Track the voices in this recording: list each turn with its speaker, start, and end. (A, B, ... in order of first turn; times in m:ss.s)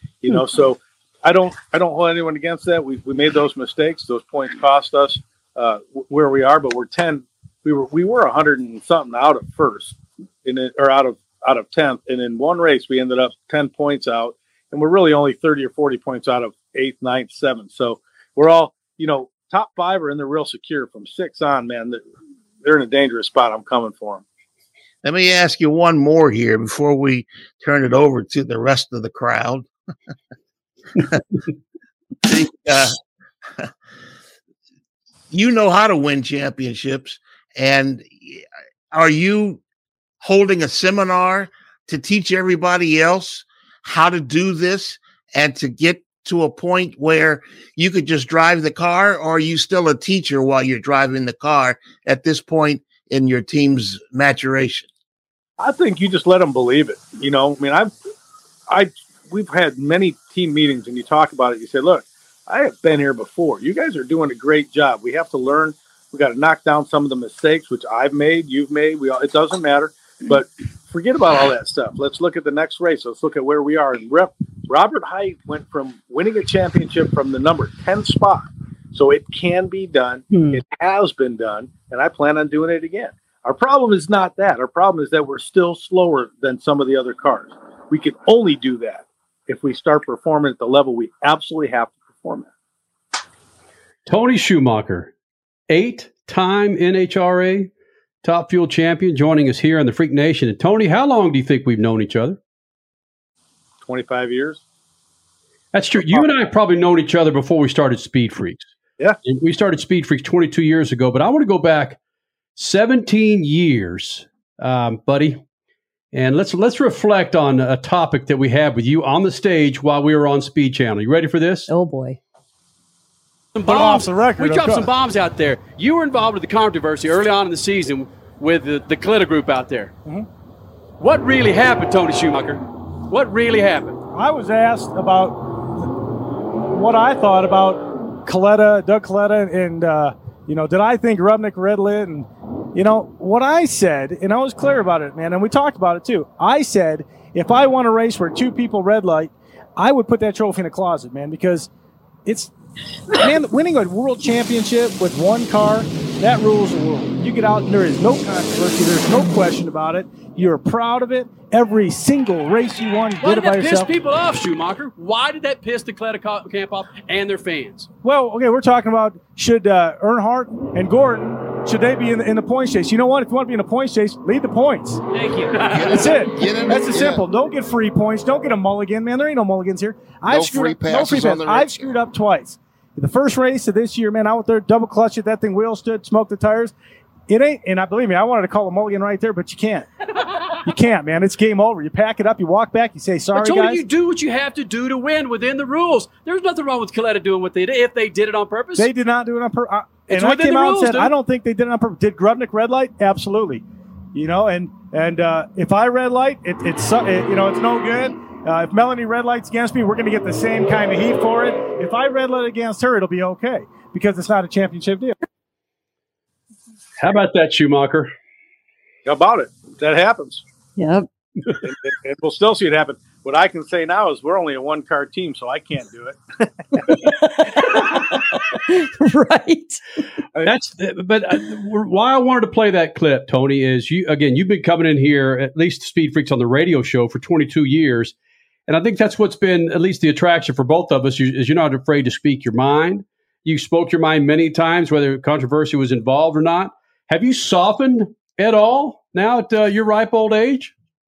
0:00.2-0:22.0 A
0:22.6-0:24.2 A
0:25.0-0:29.7 B
0:32.2-0:33.0 B
0:35.3-0:39.6 B
0:40.2-0:54.9 B
0:55.6-0:57.9 A
0:58.7-1:32.5 A
1:20.3-1:20.6 C
1:34.0-1:35.1 D
1:35.7-1:37.7 D
1:38.2-1:42.4 D
1:43.8-1:44.6 A
1:45.7-1:48.7 D
1:46.0-1:46.2 A
1:49.2-1:52.0 D
1:52.6-1:55.4 D
1:56.1-2:01.7 D
2:01.7-2:02.2 C
2:03.6-2:09.9 D
2:03.6-2:04.9 E
2:11.0-2:14.0 D
2:14.1-2:15.5 E
2:16.7-2:31.7 E
2:32.2-2:32.5 E
2:33.1-2:43.9 E
2:43.2-2:47.9 D
2:48.0-2:55.0 E
2:55.1-2:56.2 D
2:55.7-2:57.2 B
2:55.9-3:06.7 E
3:00.2-3:01.9 B
3:07.3-3:09.9 E
3:10.6-3:13.8 E
3:13.3-3:18.9 D
3:18.8-3:23.6 E
3:20.1-3:21.1 D
3:24.1-3:35.2 E
3:37.0-3:38.1 D
3:39.0-3:40.4 A
3:40.8-3:41.1 C
3:41.6-3:46.5 A
3:47.0-3:49.8 C
3:50.4-3:58.1 D
3:58.7-4:10.7 D